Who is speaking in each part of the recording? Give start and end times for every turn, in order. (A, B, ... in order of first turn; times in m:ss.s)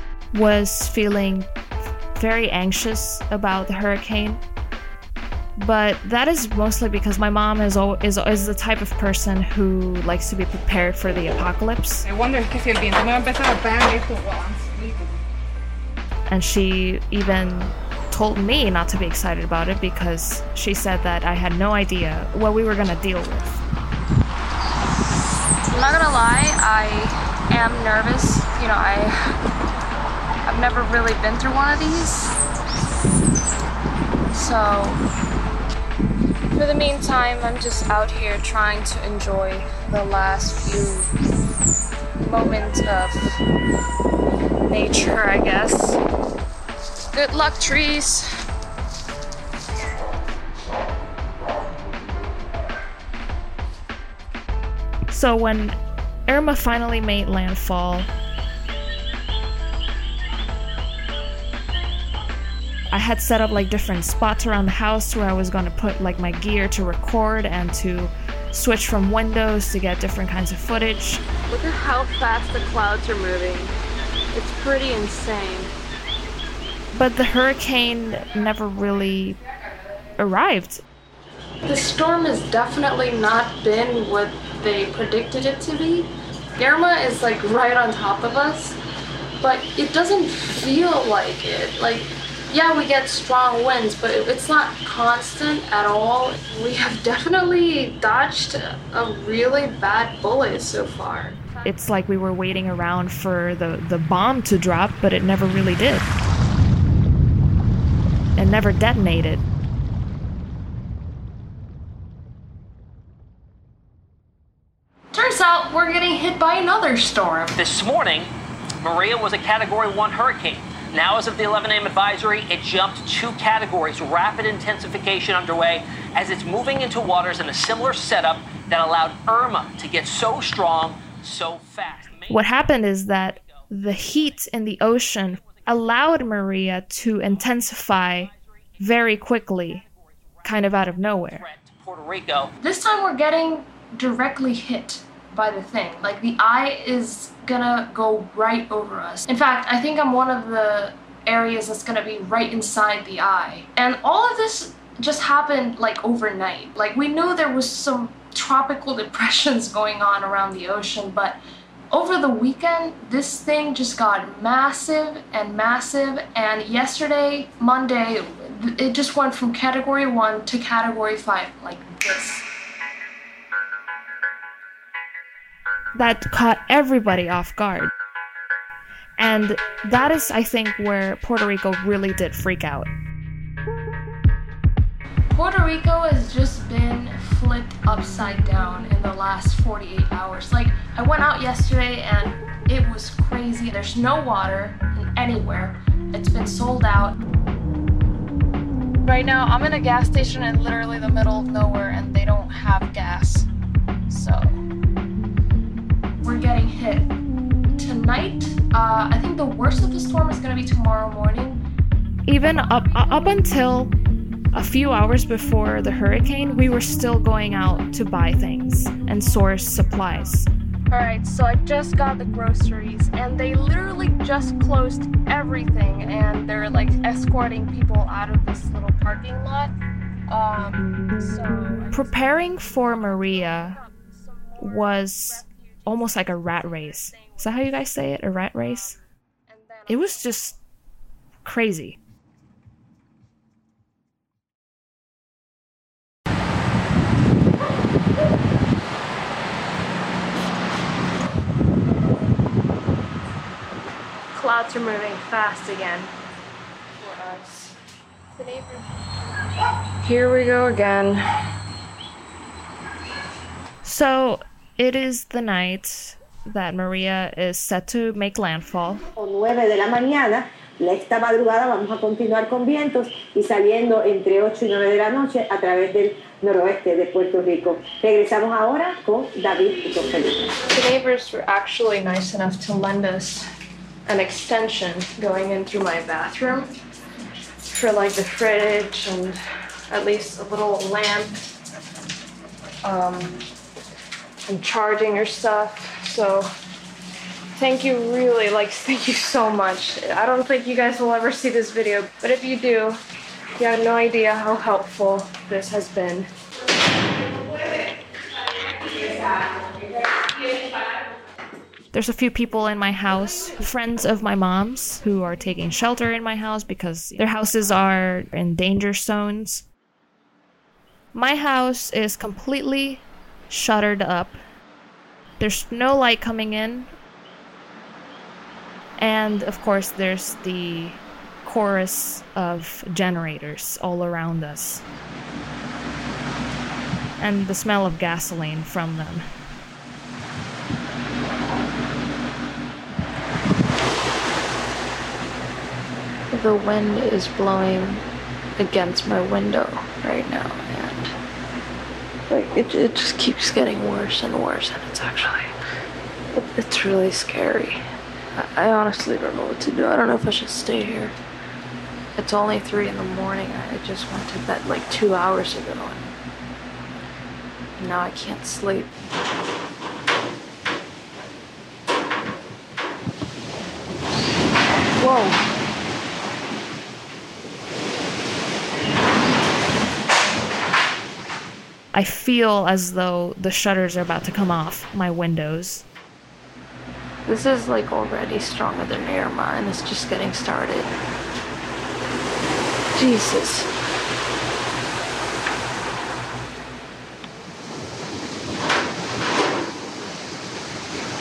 0:00.3-0:01.5 A
0:02.1-0:04.4 A
0:05.6-0:12.0 A
0:12.0-0:15.2 B
0:16.3-0:23.6 A
0:25.7-0:29.2 C
0:30.4-0:32.3 C
0:34.3-0:35.0 C
0:36.5-0:41.1 C
0:42.2-0:43.3 C
0:44.6-0:46.0 C
0:47.1-0:48.3 C
0:55.1-0:58.1 A
1:02.9-1:11.2 A
1:11.5-1:13.8 C
1:14.3-1:15.7 C
1:16.9-1:19.4 A
1:20.2-1:20.8 A
1:21.6-1:28.8 C
1:29.4-1:41.4 C
1:41.6-1:46.1 A
1:48.4-1:49.4 A
1:55.1-1:57.6 C
1:57.6-2:12.5 D
2:12.3-2:19.8 A
2:20.4-2:21.5 A
2:20.4-2:22.5 D
2:22.6-2:41.4 C
2:41.9-2:52.4 C
2:56.0-2:57.9 A
2:59.2-3:02.9 A
3:05.3-3:17.2 C
3:19.0-3:23.5 C
3:24.1-3:24.6 C
3:26.2-3:27.1 C
3:27.8-3:31.6 C
3:32.3-3:33.9 A
3:32.4-3:33.5 C
3:34.5-3:40.5 A
3:36.7-3:37.1 C
3:39.1-3:49.7 C
3:50.3-3:57.8 C
3:51.9-3:53.8 A
3:54.6-3:58.9 A
3:58.6-4:00.5 C
3:59.9-4:00.6 A
4:01.4-4:02.0 A
4:14.3-4:16.1 C
4:17.0-4:17.7 C
4:18.4-4:18.9 C
4:20.0-4:21.2 C
4:23.8-4:29.0 A
4:29.2-4:40.5 E
4:40.6-4:43.5 C
4:44.0-4:46.7 C
4:47.7-4:49.4 C
4:49.9-4:51.5 C
4:52.8-4:53.4 C
4:54.5-4:56.5 C
4:57.6-5:03.0 C
5:03.6-5:06.3 C
5:11.9-5:19.6 A
5:21.1-5:24.4 A
5:25.4-5:26.9 A
5:29.0-5:34.8 A
5:37.2-5:39.2 A
5:46.3-5:48.0 C
5:48.6-5:51.1 C
5:52.3-5:55.5 C
5:56.3-5:57.8 C
5:58.4-6:01.1 C
6:02.2-6:06.1 C
6:07.8-6:08.9 C
6:15.0-6:15.4 C
6:21.9-6:25.8 A
6:27.2-6:30.9 C
6:32.9-6:33.7 C